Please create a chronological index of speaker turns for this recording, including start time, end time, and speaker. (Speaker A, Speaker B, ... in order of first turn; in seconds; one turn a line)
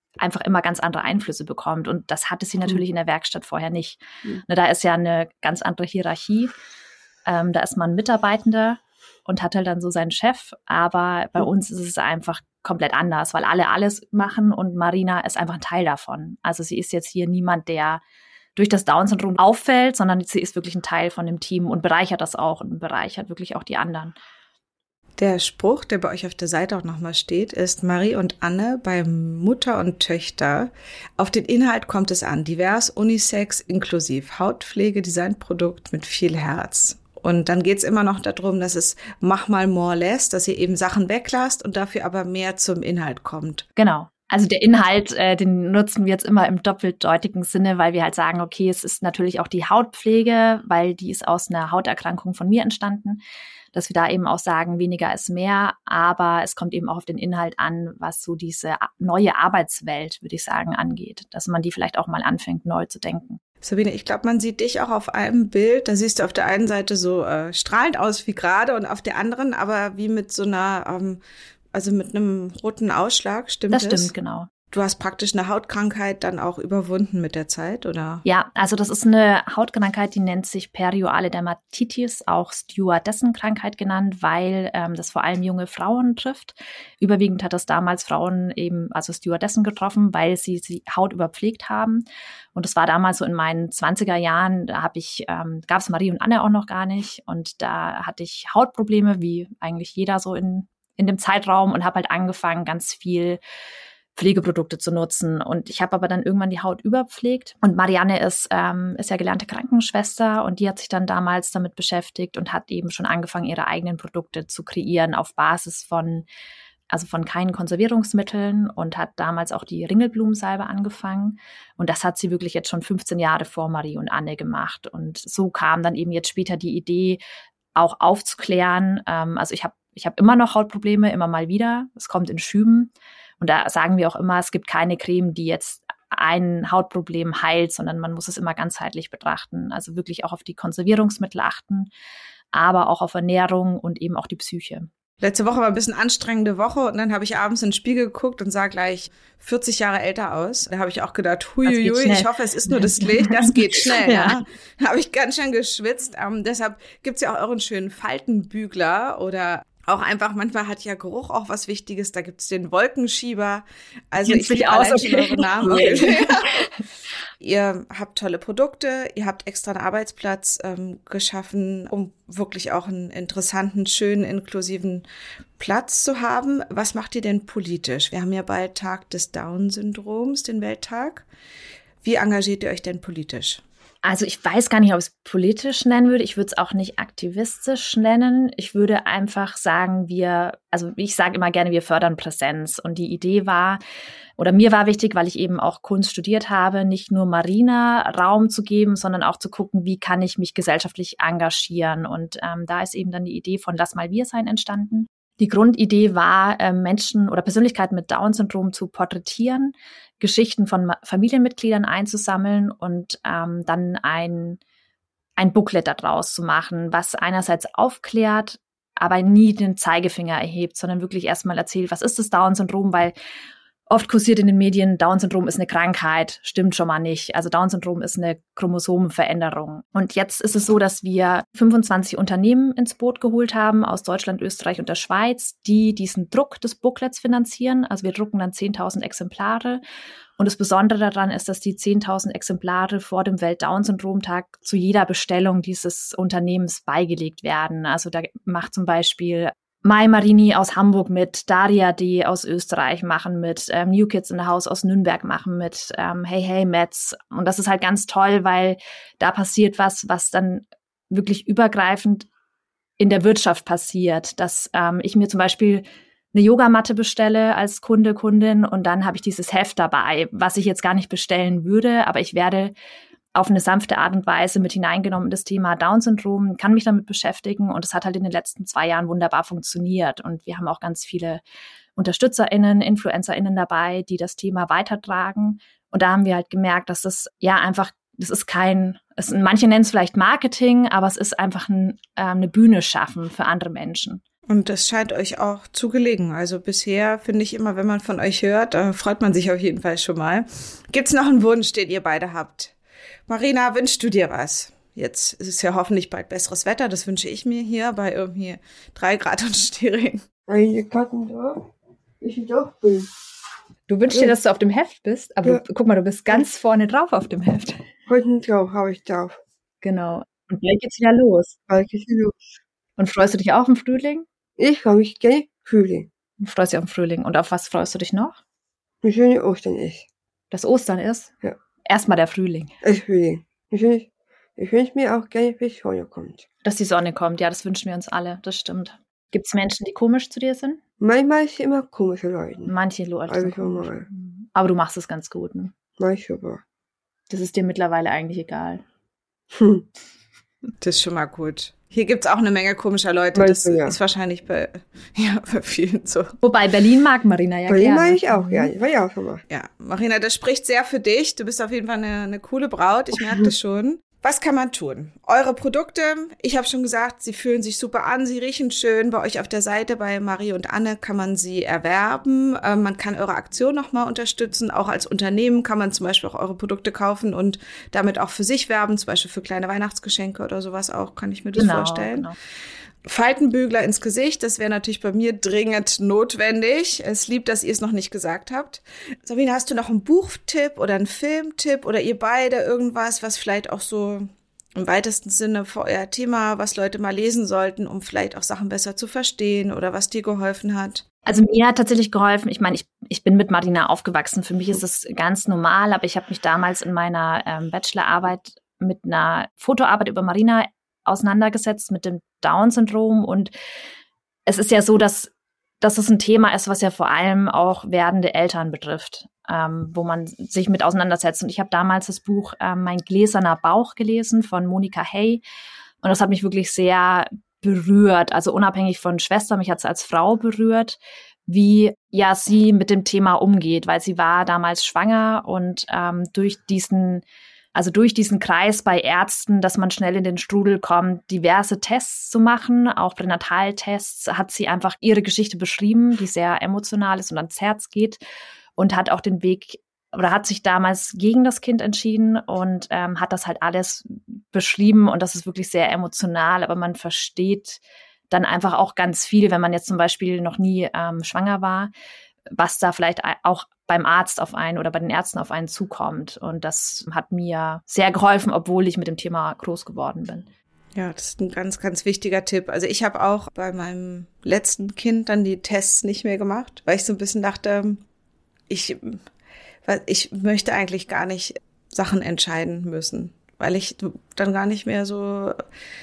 Speaker A: 0.2-6.5
Speaker A: 7.3-18.0
Speaker A: 18.6-24.1
Speaker B: 25.2-43.7
Speaker A: 43.8-53.2
Speaker A: 53.7-63.4
Speaker B: 63.6-71.2
Speaker B: 71.7-74.1
Speaker A: 73.7-74.5
Speaker B: 74.7-78.2
Speaker A: 78.3-103.4
Speaker A: 104.2-116.3
Speaker A: 116.9-127.2
Speaker A: 127.8-141.9
Speaker A: 142.5-144.9
Speaker B: 145.2-166.5
Speaker A: 151.7-154.4
Speaker A: 164.3-166.8
Speaker B: 167.4-175.1
Speaker B: 175.6-181.2
Speaker B: 182.0-183.6
Speaker A: 184.0-193.8
Speaker A: 194.4-214.6
Speaker A: 215.4-223.1
Speaker A: 223.9-239.8
Speaker A: 240.4-262.3
Speaker A: 263.0-272.7
Speaker A: 273.4-281.4
Speaker A: 282.0-294.2
Speaker B: 294.5-302.7
Speaker B: 303.3-310.2
Speaker C: 310.5-311.6
Speaker C: 312.2-313.1
Speaker A: 313.9-317.8
Speaker C: 318.1-319.4
Speaker A: 319.8-321.6
Speaker C: 321.7-322.4
Speaker A: 323.0-324.3
Speaker C: 324.6-326.1
Speaker A: 326.4-328.4
Speaker C: 329.0-330.1
Speaker A: 330.5-331.3
Speaker A: 331.9-332.7
Speaker C: 332.8-336.4
Speaker A: 336.6-340.8
Speaker C: 341.0-342.7
Speaker A: 342.7-345.7
Speaker C: 343.3-344.1
Speaker C: 346.0-346.6
Speaker A: 347.3-348.8
Speaker C: 349.5-349.9
Speaker B: 350.8-356.4
Speaker C: 353.4-354.0
Speaker A: 356.4-358.7
Speaker C: 357.7-359.4
Speaker B: 359.5-382.3
Speaker C: 363.1-363.5
Speaker A: 381.6-382.4
Speaker B: 383.1-401.1
Speaker A: 401.3-413.5
Speaker A: 414.5-425.4
Speaker A: 426.0-437.2
Speaker A: 437.8-448.2
Speaker A: 448.8-461.9
Speaker A: 462.5-470.5
Speaker B: 470.9-478.0
Speaker B: 478.7-479.2
Speaker B: 479.9-485.6